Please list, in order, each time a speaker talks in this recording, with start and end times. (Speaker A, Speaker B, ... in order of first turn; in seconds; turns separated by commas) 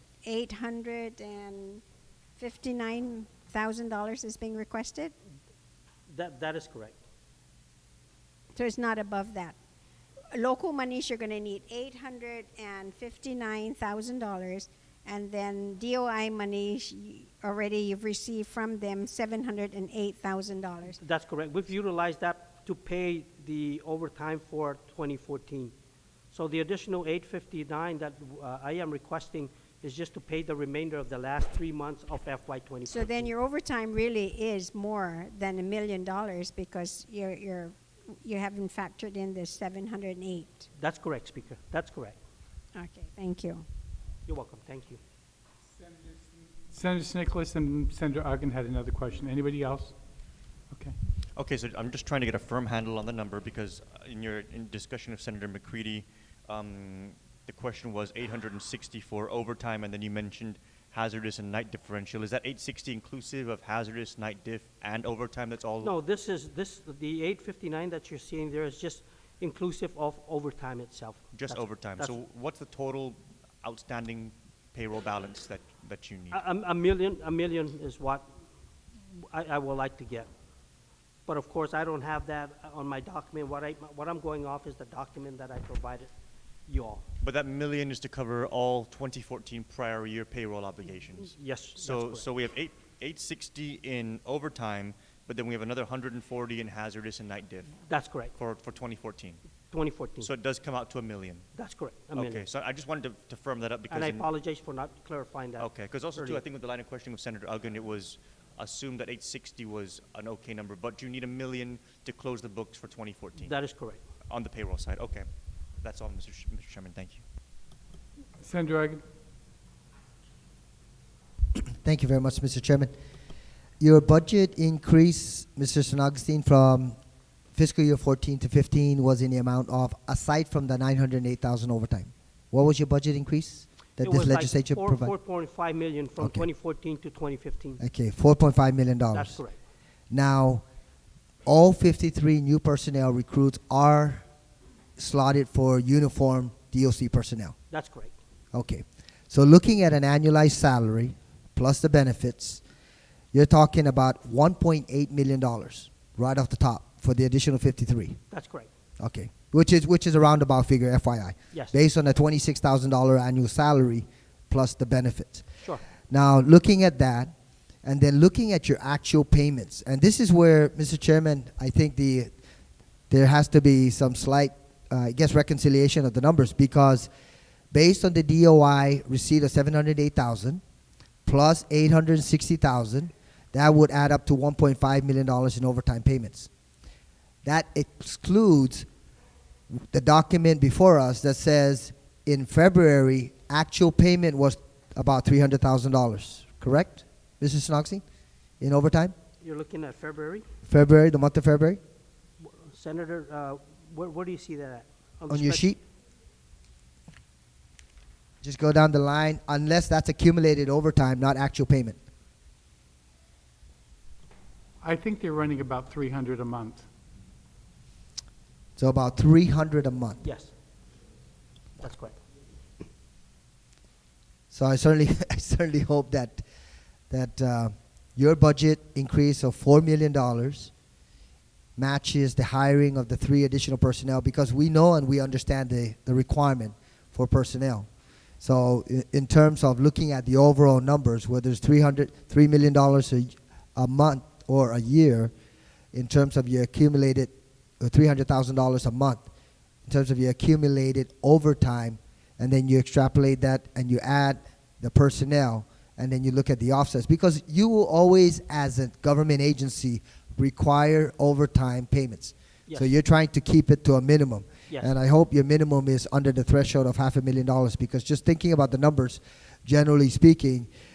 Speaker A: 0.2-1.8, Speaker A: 2.4-5.1, Speaker B: 6.1-7.0, Speaker A: 8.5-9.6, Speaker A: 10.3-21.0, Speaker B: 20.9-25.7, Speaker B: 26.3-33.3, Speaker A: 32.9-40.7, Speaker B: 40.8-42.2, Speaker A: 42.7-43.7, Speaker B: 44.3-45.0, Speaker C: 46.7-50.0, Speaker D: 51.4-65.9, Speaker B: 65.8-72.2, Speaker D: 71.3-76.4, Speaker B: 76.3-78.3, Speaker B: 79.1-80.3, Speaker B: 81.3-86.1, Speaker B: 86.7-87.0, Speaker D: 87.2-97.8, Speaker B: 91.3-92.3, Speaker B: 97.9-98.3, Speaker D: 98.3-99.4, Speaker B: 99.7-100.3, Speaker D: 100.2-101.5, Speaker B: 101.6-102.5, Speaker D: 102.1-104.3, Speaker B: 103.9-106.4, Speaker D: 105.6-113.5, Speaker B: 113.4-114.0, Speaker D: 114.3-115.3, Speaker D: 115.8-117.2, Speaker C: 118.4-119.0, Speaker E: 121.8-122.9, Speaker E: 123.8-127.0, Speaker E: 127.5-135.1, Speaker B: 134.0-137.8, Speaker E: 136.2-136.5, Speaker E: 137.8-139.4, Speaker B: 139.1-139.6, Speaker E: 140.1-140.7, Speaker E: 141.5-144.2, Speaker E: 145.0-147.6, Speaker B: 147.7-148.2, Speaker E: 148.5-152.6, Speaker E: 153.3-158.2, Speaker B: 158.3-158.7, Speaker E: 159.0-165.5, Speaker E: 166.1-167.3, Speaker E: 167.8-172.3, Speaker E: 173.1-177.1, Speaker E: 177.7-180.6, Speaker E: 181.3-186.5, Speaker E: 187.4-188.9, Speaker E: 189.9-198.0, Speaker E: 198.6-199.2, Speaker B: 199.4-200.4, Speaker E: 200.7-201.8, Speaker B: 202.4-205.7, Speaker E: 205.3-205.8, Speaker E: 208.4-212.0, Speaker C: 214.8-216.9, Speaker E: 218.8-220.2, Speaker B: 220.2-220.5, Speaker B: 221.8-222.2, Speaker E: 224.5-226.4, Speaker E: 227.1-230.7, Speaker E: 231.8-237.9, Speaker E: 238.4-245.3, Speaker E: 245.9-249.2, Speaker E: 249.8-270.7